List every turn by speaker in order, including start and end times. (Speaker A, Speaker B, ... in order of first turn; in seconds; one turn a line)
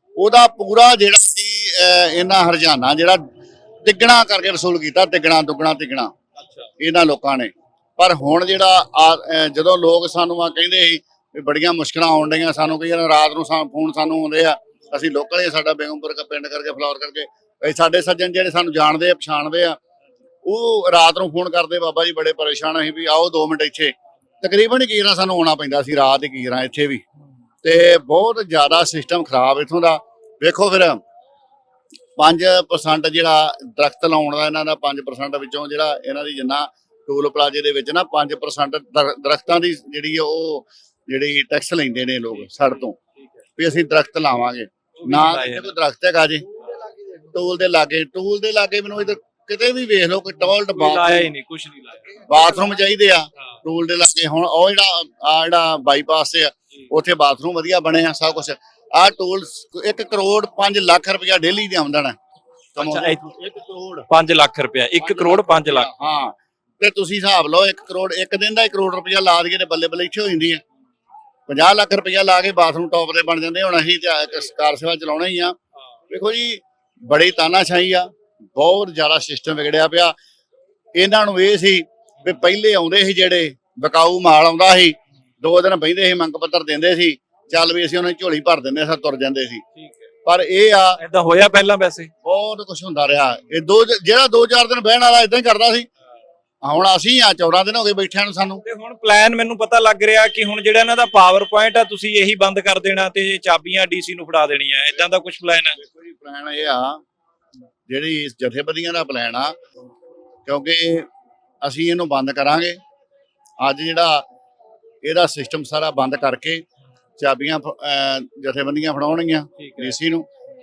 Speaker A: 0.2-3.2
Speaker A: 3.9-6.1
Speaker B: 6.4-6.7
Speaker A: 6.8-19.8
Speaker A: 20.4-27.0
Speaker A: 27.6-31.0
Speaker A: 32.2-43.0
Speaker A: 43.6-46.4
Speaker B: 45.0-45.7
Speaker A: 47.3-51.3
Speaker B: 50.7-52.2
Speaker A: 52.3-62.2
Speaker B: 62.8-63.2
Speaker A: 62.8-64.1
Speaker B: 64.1-65.9
Speaker A: 65.0-70.6
Speaker A: 71.5-75.5
Speaker A: 76.1-80.1
Speaker A: 81.0-89.6
Speaker A: 90.3-91.0
Speaker B: 91.0-92.1
Speaker A: 92.2-95.9
Speaker A: 96.6-98.6
Speaker B: 98.7-105.8
Speaker A: 105.8-107.0
Speaker A: 107.9-109.5
Speaker A: 110.5-111.1
Speaker A: 111.6-112.8
Speaker A: 113.6-114.2
Speaker A: 115.0-116.6
Speaker A: 117.2-120.3
Speaker B: 119.6-120.0